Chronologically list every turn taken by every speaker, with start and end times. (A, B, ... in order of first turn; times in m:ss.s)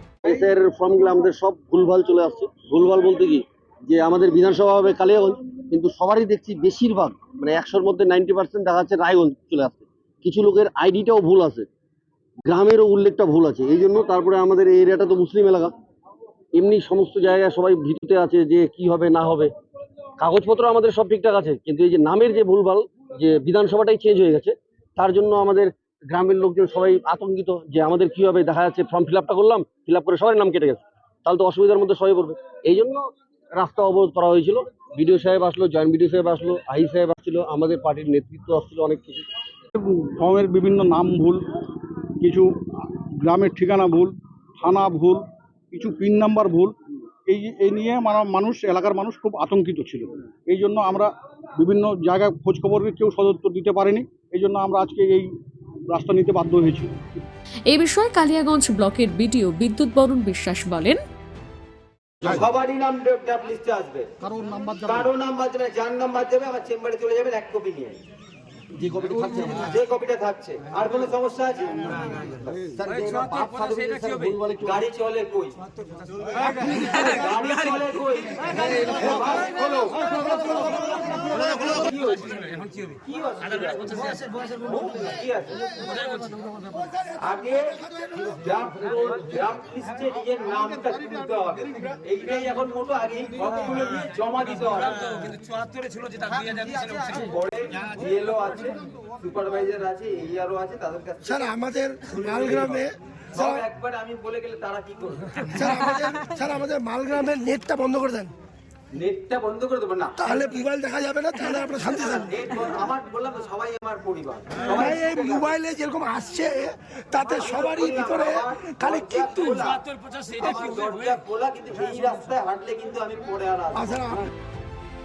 0:00.2-0:11.7 A
0:12.4-0:15.7 A
0:16.5-0:19.5 A
0:20.2-0:39.3 A
0:40.2-0:41.4 B
0:42.2-0:42.4 B
0:43.2-0:46.7 B
0:47.3-0:55.3 B
0:55.9-0:57.2 B
0:57.7-1:01.0 C
1:02.2-1:04.1 D
1:04.2-1:05.0 B
1:04.8-1:08.0 D
1:08.7-1:15.6 D
1:13.5-1:14.8 A
1:16.4-1:26.0 D
1:27.1-1:35.4 D
1:36.1-1:41.5 D
1:41.3-1:42.8 E
1:42.1-1:45.8 D
1:45.6-1:48.3 E
1:48.9-1:50.3 D
1:50.2-1:52.1 E
1:51.6-1:55.5 D
1:55.0-1:59.1 E
1:57.2-2:04.3 D